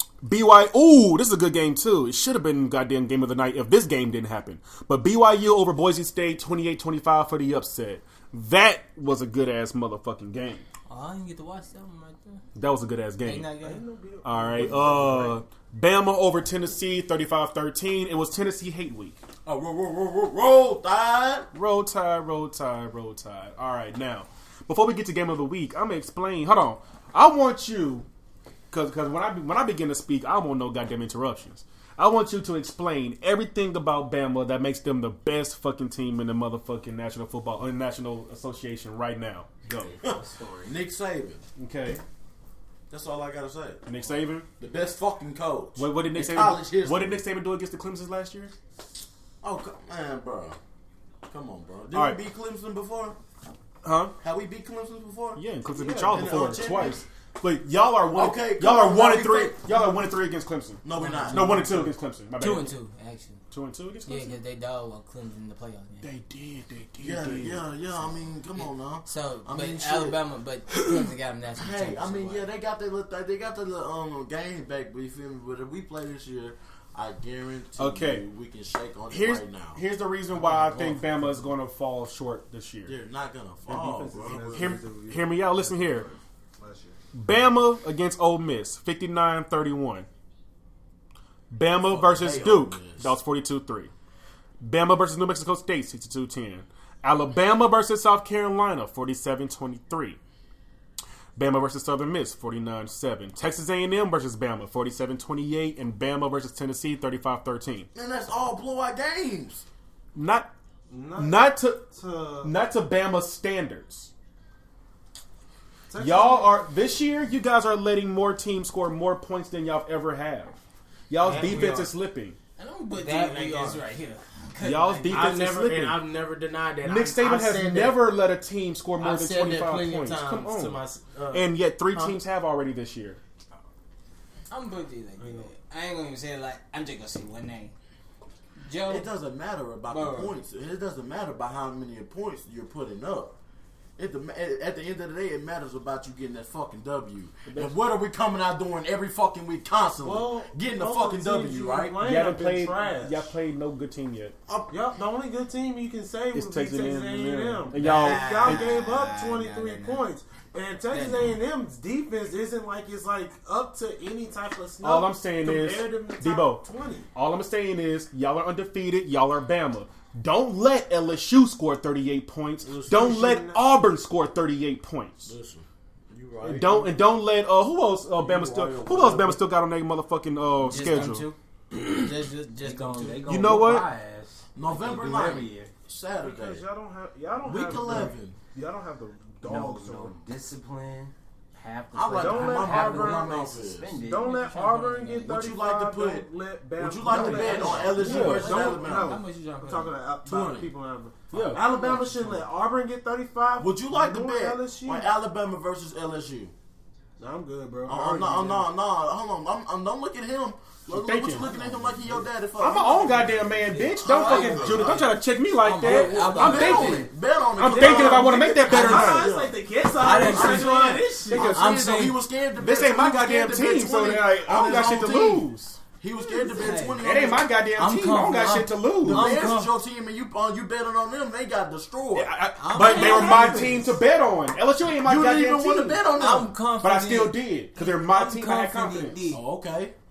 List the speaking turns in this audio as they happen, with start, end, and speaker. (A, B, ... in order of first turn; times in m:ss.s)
0:00.2-0:10.6 A
0:10.9-0:12.4 B
0:12.6-0:13.5 A
0:13.2-0:13.8 B
0:13.6-0:15.4 C
0:14.2-0:19.2 A
0:19.4-0:21.5 D
0:21.5-0:28.1 A
0:28.7-0:40.0 A
0:39.7-0:40.8 E
0:40.0-0:41.4 D
0:41.6-0:42.0 A
0:42.9-0:43.8 D
0:43.9-0:44.5 A
0:44.6-0:47.2 D
0:45.8-0:48.5 A
0:49.4-0:50.6 D
0:51.3-0:53.2 D
0:51.9-0:52.2 A
0:53.8-0:54.1 A
0:54.2-0:55.4 D
0:55.4-1:02.8 A
0:55.7-0:56.5 C
0:56.0-0:57.0 D
0:58.1-0:59.6 D
1:00.8-1:01.9 D
1:01.0-1:01.7 B
1:02.4-1:03.4 B
1:03.5-1:04.4 A
1:04.1-1:06.1 B
1:06.0-1:07.6 A
1:07.0-1:10.2 D
1:08.6-1:12.5 B
1:11.6-1:19.8 D
1:17.8-1:18.2 A
1:19.1-1:22.9 A
1:20.4-1:21.2 D
1:22.9-1:24.8 D
1:23.7-1:27.0 C
1:24.5-1:26.1 A
1:27.1-1:30.1 A
1:31.5-1:33.9 A
1:31.8-1:33.2 D
1:34.6-1:40.2 A
1:41.4-1:47.9 A
1:47.9-1:49.6 D
1:50.2-1:50.5 A
1:50.9-1:52.5 C
1:51.2-1:51.9 A
1:52.4-1:54.1 A
1:55.9-1:56.6 C
1:56.0-2:00.6 A
2:01.1-2:02.4 A
2:01.2-2:01.9 F
2:02.6-2:05.4 B
2:02.9-2:03.8 F
2:04.6-2:06.1 A
2:05.1-2:08.1 F
2:06.8-2:13.2 A
2:09.0-2:12.2 F
2:14.5-2:17.7 B
2:15.2-2:15.5 C
2:18.6-2:19.1 B
2:18.9-2:23.4 D
2:19.9-2:20.3 B
2:24.0-2:32.0 D
2:30.0-2:33.3 C
2:32.0-2:34.4 A
2:34.5-2:34.7 D
2:34.7-2:47.1 C
2:36.3-2:38.7 A
2:37.7-2:40.1 B
2:40.9-2:41.4 B
2:44.8-2:55.3 A
2:52.7-2:53.1 D
2:52.8-2:53.6 C
2:55.2-2:56.9 D
2:56.4-3:01.3 A
2:58.2-2:59.4 D
3:00.7-3:03.3 B
3:02.6-3:05.7 E
3:03.3-3:03.9 A
3:04.6-3:06.6 D
3:06.2-3:10.2 C
3:07.4-3:08.4 D
3:09.4-3:14.7 E
3:11.9-3:13.9 D
3:12.2-3:13.4 C
3:14.0-3:25.1 C
3:14.2-3:15.4 B
3:15.2-3:19.2 D
3:17.1-3:19.9 B
3:17.1-3:18.1 E
3:18.0-3:18.6 A
3:20.2-3:20.7 D
3:21.3-3:21.7 A
3:21.8-3:22.4 B
3:23.6-3:26.5 D
3:27.2-3:28.7 C
3:27.9-3:35.1 D
3:30.9-3:31.5 A
3:32.6-3:39.3 A
3:33.7-3:37.1 B
3:34.1-3:34.9 C
3:35.8-3:45.5 D
3:37.6-3:41.5 C
3:40.0-3:42.2 B
3:40.4-3:40.7 A
3:41.3-3:41.8 A
3:42.6-3:45.8 A
3:46.0-3:47.5 D
3:46.4-3:47.0 B
3:47.0-3:49.3 A
3:47.8-3:49.7 B
3:49.0-3:52.4 D
3:52.2-3:56.0 A
3:52.6-3:53.9 B
3:53.0-3:53.7 D
3:53.0-3:53.7 C
3:55.0-3:56.6 D
3:56.2-3:59.4 B
3:56.8-3:59.2 A
3:59.3-3:59.9 D